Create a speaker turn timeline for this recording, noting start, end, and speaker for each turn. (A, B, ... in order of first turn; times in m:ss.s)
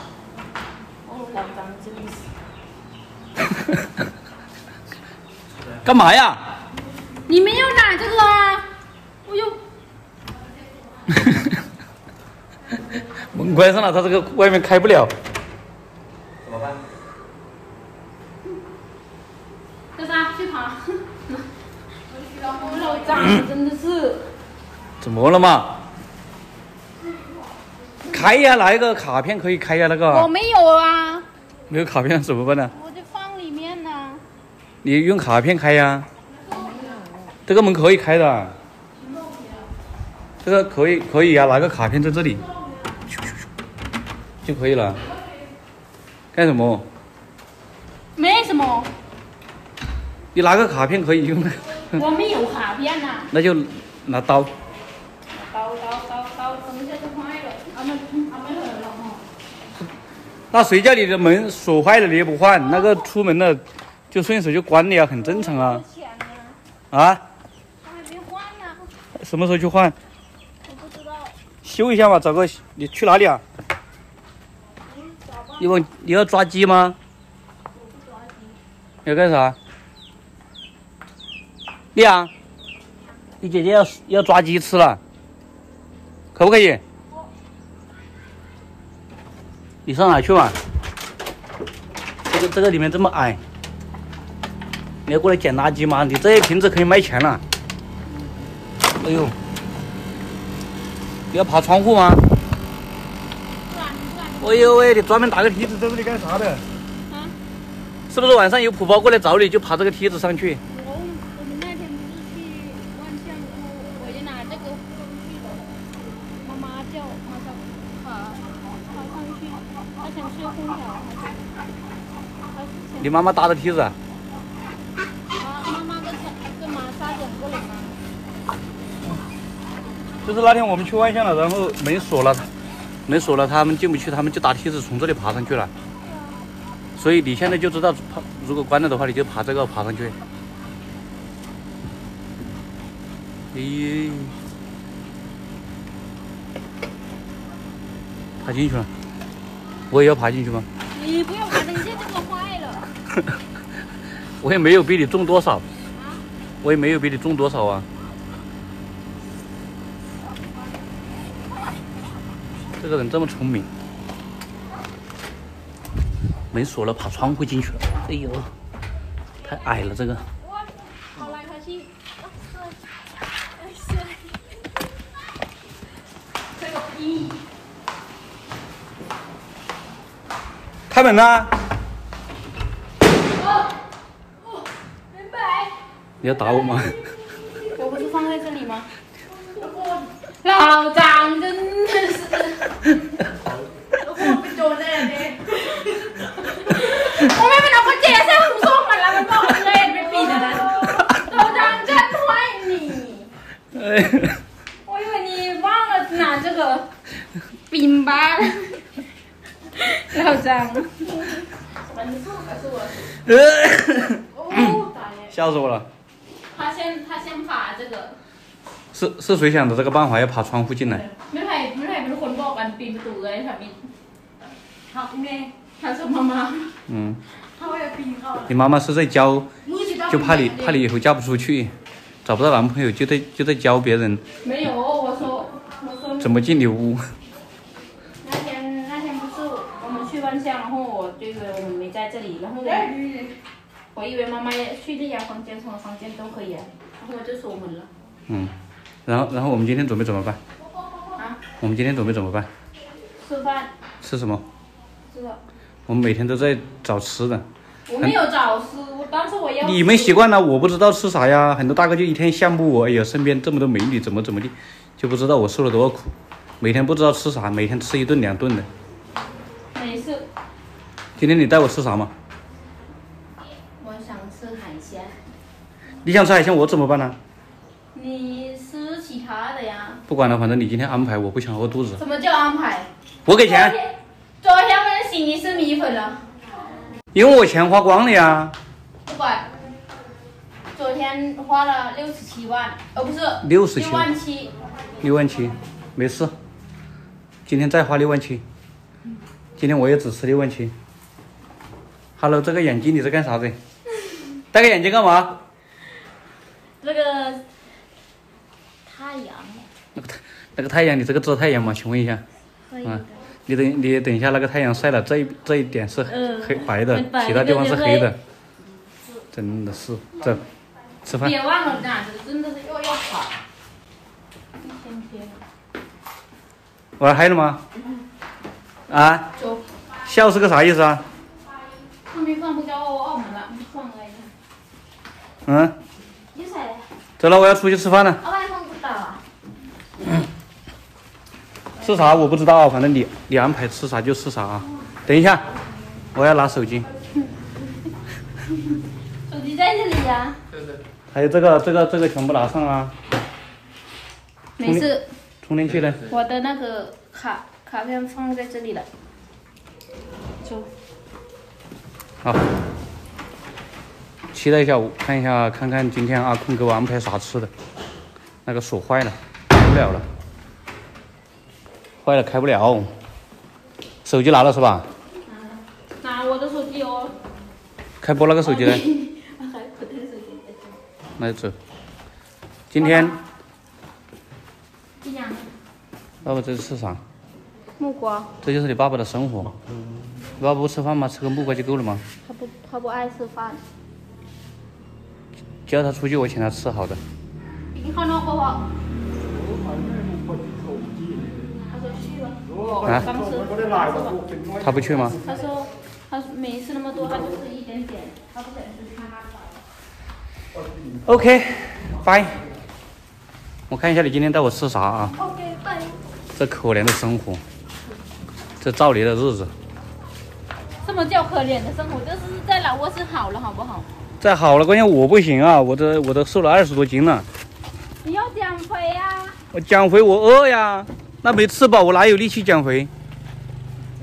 0:01.0-0:02.3 A
0:03.5-0:03.9 B
0:05.8-0:06.4 B
0:07.3-0:08.7 A
0:09.2-0:09.6 A
0:11.1-0:11.6 B
0:12.9-0:15.1 B
0:16.4-0:16.8 B
0:19.9-0:21.4 A
0:22.1-0:24.3 A
0:25.0-0:25.7 B
0:28.1-0:30.3 B
0:30.1-0:31.3 A
0:31.7-0:32.7 B
0:32.7-0:34.2 A
0:34.8-0:36.1 B
0:36.5-0:37.0 A
0:37.5-0:38.5 B
0:39.0-0:39.6 A
0:40.4-0:42.4 B
0:44.4-0:45.0 B
0:46.3-0:46.8 B
0:48.2-0:48.9 A
0:50.3-0:52.0 B
0:51.9-0:53.3 A
0:53.3-0:54.5 B
0:55.3-0:59.2 A
1:00.5-1:05.8 B
1:05.2-1:06.6 A
1:06.9-1:07.2 B
1:07.8-1:08.9 A
1:09.2-1:10.0 B
1:10.7-1:11.4 A
1:11.6-1:13.4 B
1:15.0-1:15.6 A
1:15.6-1:17.0 B
1:17.8-1:18.6 A
1:19.0-1:19.6 B
1:22.0-1:22.3 B
1:23.4-1:25.0 B
1:26.4-1:26.8 B
1:29.9-1:30.6 B
1:32.3-1:33.4 B
1:35.1-1:37.4 B
1:39.0-1:39.4 B
1:41.3-1:42.2 B
1:43.7-1:44.8 A
1:44.4-1:46.6 B
1:47.1-1:47.4 A
1:48.1-1:50.6 B
1:50.7-1:55.7 A
1:56.4-2:01.4 A
2:02.5-2:03.1 A
2:03.0-2:04.0 B
2:05.4-2:08.0 A
2:10.2-2:12.5 B
2:13.1-2:15.7 B
2:17.0-2:20.2 B
2:23.5-2:24.4 B
2:28.4-2:28.9 B
2:29.9-2:30.7 B
2:30.9-2:32.9 A
2:34.4-2:35.6 B
2:36.6-2:37.9 B
2:42.8-2:43.7 B
2:46.5-2:48.5 B
2:49.4-2:50.2 B
2:51.1-2:54.6 A
2:56.6-2:57.4 A
3:00.9-3:01.5 B
3:03.4-3:03.7 A
3:05.1-3:05.8 A
3:06.2-3:07.0 B
3:07.6-3:08.9 A
3:09.6-3:13.0 A
3:13.9-3:23.3 A
3:21.0-3:21.3 B
3:23.7-3:24.4 B
3:24.8-3:26.9 A
3:27.7-3:28.9 A
3:29.7-3:33.2 A
3:33.2-3:34.8 B
3:34.3-3:35.3 A
3:35.3-3:35.9 B
3:36.5-3:38.2 A
3:38.9-3:41.0 B
3:41.1-3:43.8 A
3:44.9-3:46.7 A
3:46.9-3:47.2 B
3:47.6-3:48.5 A
3:48.5-3:49.5 B
3:49.7-3:50.8 A
3:50.1-3:51.7 B
3:52.2-3:54.2 B
3:54.4-3:56.3 A
3:56.2-3:57.0 B
3:58.2-4:02.9 A
4:03.9-4:07.9 A
4:08.3-4:08.5 B
4:09.1-4:10.4 B
4:11.6-4:12.5 B
4:13.2-4:13.7 A
4:14.0-4:14.4 B
4:15.1-4:15.4 A
4:15.9-4:17.4 B
4:17.9-4:20.1 A
4:19.6-4:28.7 B
4:29.7-4:30.3 A
4:31.2-4:32.1 B
4:33.8-4:35.2 A
4:36.0-4:37.2 B
4:37.9-4:40.0 A
4:40.1-4:42.0 B
4:42.0-4:46.2 A
4:43.3-4:43.8 B
4:47.1-4:48.5 B
4:49.0-4:49.5 A
4:50.7-4:54.5 A
4:53.4-4:54.1 B
4:55.0-4:56.3 B
4:57.5-4:58.4 B
4:59.6-5:00.7 B
5:02.2-5:03.6 B
5:04.5-5:05.4 B
5:06.8-5:07.4 A
5:08.9-5:09.7 A
5:10.0-5:12.2 B
5:12.7-5:13.1 A
5:12.8-5:18.2 B
5:16.1-5:18.1 A
5:19.3-5:20.4 B
5:21.1-5:21.4 B
5:21.2-5:23.3 A
5:24.6-5:25.4 A
5:27.0-5:27.6 B
5:28.9-5:29.3 B
5:29.4-5:29.6 A
5:30.0-5:31.0 B
5:32.1-5:34.3 A
5:35.5-5:35.7 B
5:36.4-5:36.8 A
5:37.2-5:38.2 B
5:38.2-5:39.2 A
5:41.8-5:45.4 B
5:46.1-5:46.9 B
5:49.3-5:50.4 A
5:51.1-5:52.9 B
5:54.6-5:55.1 A
5:55.4-5:56.1 B
5:56.1-5:58.9 A
6:00.4-6:00.7 A
6:04.3-6:07.5 B
6:08.5-6:10.0 B
6:12.0-6:12.9 B
6:14.0-6:14.9 B
6:15.3-6:17.1 A
6:18.0-6:18.8 B
6:18.4-6:20.8 A
6:21.2-6:21.6 B
6:22.7-6:23.2 B
6:22.8-6:23.2 A
6:25.0-6:25.5 A
6:26.2-6:27.0 B
6:27.8-6:28.3 A
6:28.4-6:29.5 B
6:30.4-6:32.0 B
6:32.2-6:33.6 A
6:35.7-6:37.0 B
6:37.7-6:38.7 A
6:41.7-6:44.2 A
6:42.8-6:43.1 B
6:44.6-6:45.2 B
6:45.1-6:49.5 A
6:51.0-6:52.4 B
6:53.7-6:55.2 B
6:55.2-6:56.0 A
6:56.4-6:57.4 B
6:58.6-6:59.5 B
7:00.8-7:03.9 A
7:04.2-7:07.2 B
7:08.0-7:09.4 A
7:09.5-7:12.9 B